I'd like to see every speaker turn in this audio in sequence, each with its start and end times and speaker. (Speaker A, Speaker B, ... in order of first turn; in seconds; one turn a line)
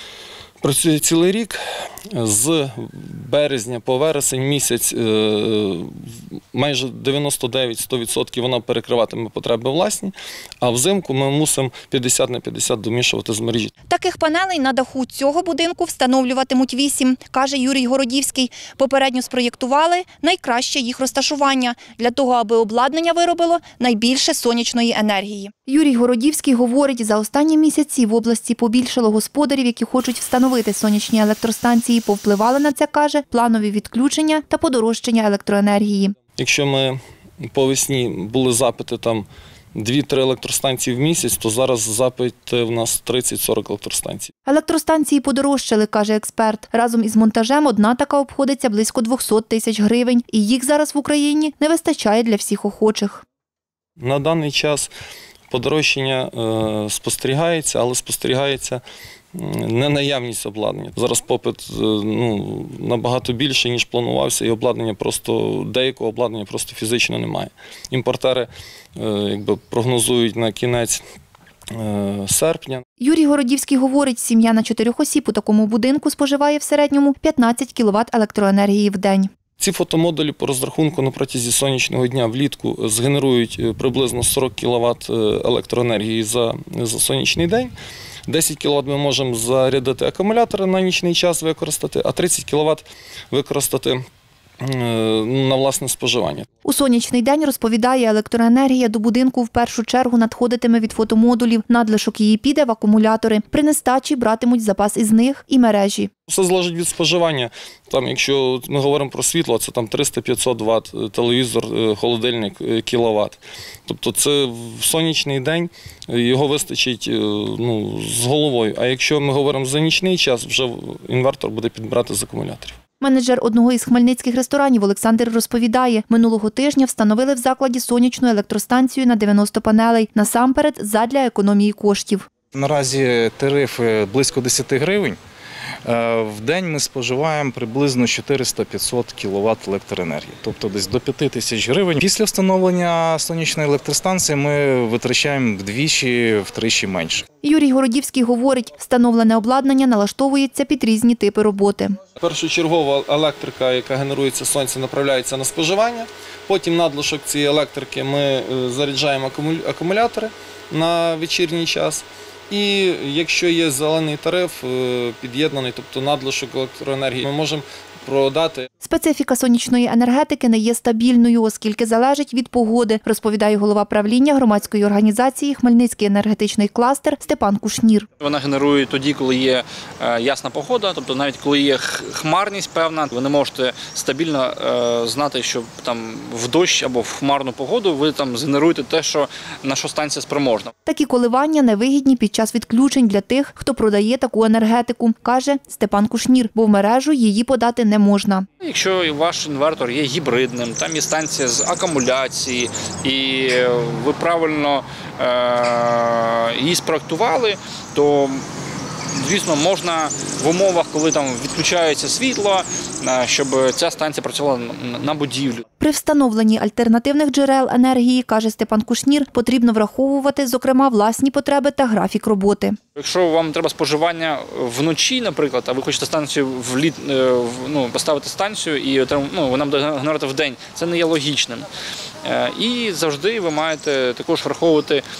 Speaker A: 0.6-6.0
Speaker A: 6.5-13.7
Speaker B: 13.9-36.1
Speaker A: 36.4-44.3
Speaker B: 44.5-53.2
Speaker A: 54.0-54.9
Speaker A: 55.5-58.8
Speaker A: 59.3-71.0
Speaker A: 71.7-72.8
Speaker B: 73.0-79.3
Speaker A: 79.6-87.7
Speaker A: 88.3-94.0
Speaker A: 94.6-96.5
Speaker B: 96.6-106.1
Speaker A: 106.3-122.8
Speaker B: 123.0-132.3
Speaker C: 132.5-135.2
Speaker C: 135.8-147.2
Speaker B: 147.4-152.0
Speaker A: 152.2-168.6
Speaker B: 168.8-178.1
Speaker D: 178.2-190.7
Speaker B: 190.8-198.5
Speaker D: 198.6-208.5
Speaker D: 209.1-215.6
Speaker B: 215.8-222.8
Speaker D: 222.9-231.7
Speaker D: 232.2-235.0